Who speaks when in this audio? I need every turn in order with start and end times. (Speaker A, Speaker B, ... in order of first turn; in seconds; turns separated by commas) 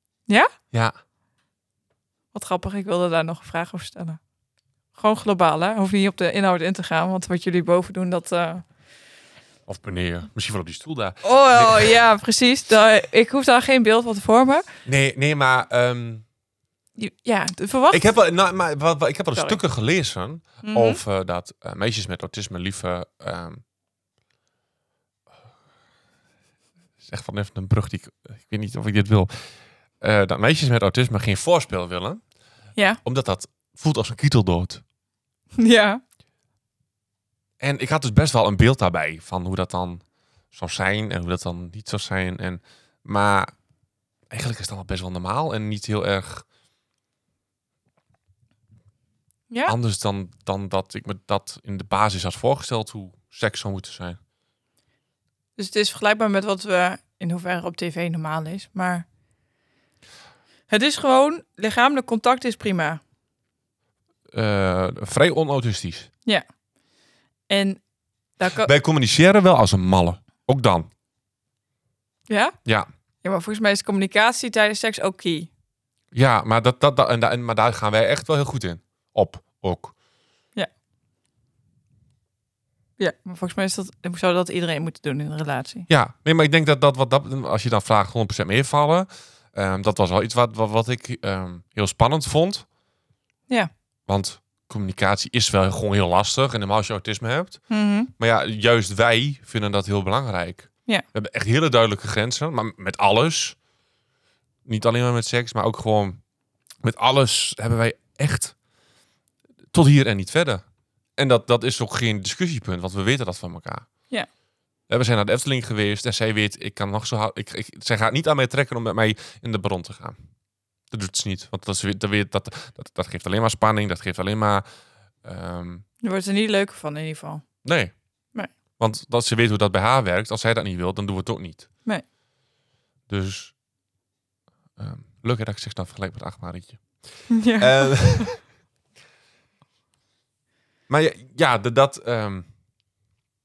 Speaker A: 2.3-4.2, Speaker A: 4.9-8.6, Speaker B: 9.7-12.0, Speaker A: 11.2-14.6, Speaker B: 14.9-16.2, Speaker A: 17.0-18.0, Speaker B: 17.9-23.6, Speaker A: 20.6-21.0, Speaker B: 27.0-29.3, Speaker B: 30.0-32.2, Speaker B: 33.0-34.8, Speaker A: 35.6-36.0, Speaker B: 37.6-43.5, Speaker B: 44.3-46.5, Speaker A: 49.5-49.7, Speaker B: 49.6-54.2, Speaker A: 55.6-59.0, Speaker A: 60.7-63.0, Speaker B: 64.3-66.1, Speaker A: 67.5-67.8, Speaker A: 68.4-68.7, Speaker B: 68.6-70.9, Speaker A: 72.3-72.6, Speaker A: 73.2-75.5, Speaker B: 76.1-79.9, Speaker A: 83.0-85.9, Speaker B: 85.9-92.6, Speaker B: 94.1-97.6, Speaker A: 97.7-98.1, Speaker B: 98.2-103.6, Speaker B: 104.7-106.2, Speaker B: 106.8-108.5, Speaker B: 109.7-110.6, Speaker B: 111.2-113.9, Speaker B: 114.9-120.2, Speaker B: 120.9-124.6, Speaker B: 125.2-125.8, Speaker A: 126.0-127.4, Speaker B: 127.6-127.9, Speaker B: 128.8-131.7, Speaker B: 133.1-133.5, Speaker B: 134.8-136.8, Speaker A: 137.3-138.3, Speaker B: 137.6-138.4, Speaker B: 140.9-142.5